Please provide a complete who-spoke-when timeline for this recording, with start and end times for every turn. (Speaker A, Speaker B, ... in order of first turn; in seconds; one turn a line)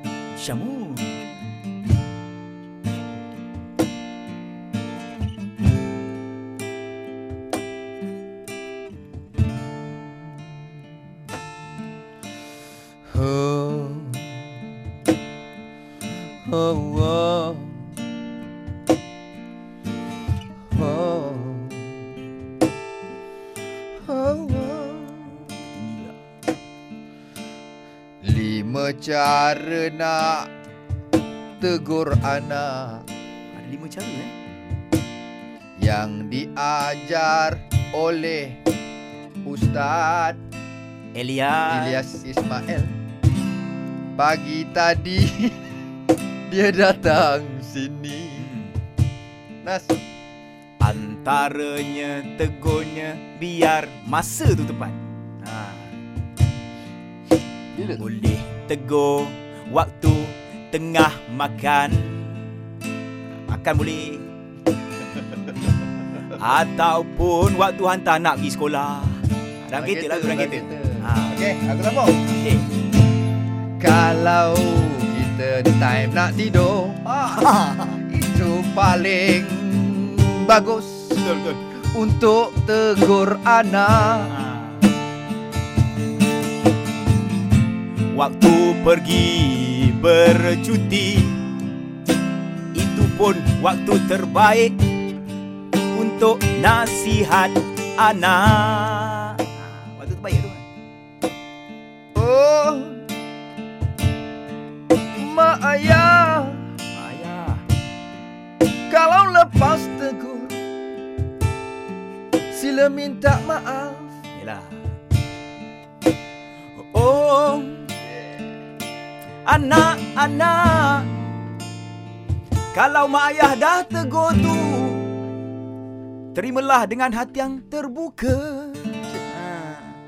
Speaker A: 0.3-1.2
Speaker B: 13.1-14.4
Speaker B: 16.4-17.9
Speaker B: 20.7-22.0
Speaker B: 24.0-25.5
Speaker A: 25.4-26.1
Speaker B: 28.2-30.5
Speaker B: 31.6-33.0
Speaker A: 33.5-34.3
Speaker B: 35.8-38.6
Speaker B: 39.5-40.4
Speaker A: 41.1-42.0
Speaker B: 41.7-42.9
Speaker B: 44.2-45.6
Speaker B: 46.5-48.5
Speaker A: 48.4-48.8
Speaker B: 49.6-50.0
Speaker A: 50.8-56.0
Speaker B: 57.8-58.0
Speaker A: 57.8-62.5
Speaker A: 63.5-64.3
Speaker A: 66.2-71.5
Speaker B: 69.7-72.2
Speaker A: 72.3-72.7
Speaker B: 73.8-81.3
Speaker A: 77.4-78.0
Speaker A: 81.2-81.6
Speaker B: 81.9-84.3
Speaker A: 84.2-84.8
Speaker A: 88.1-91.4
Speaker A: 92.7-94.8
Speaker A: 95.9-100.7
Speaker B: 102.1-103.0
Speaker B: 105.2-106.6
Speaker A: 106.9-107.6
Speaker B: 108.9-110.6
Speaker B: 112.5-114.1
Speaker A: 114.3-114.8
Speaker A: 116.8-117.9
Speaker A: 119.5-121.1
Speaker A: 122.7-125.0
Speaker A: 126.3-130.0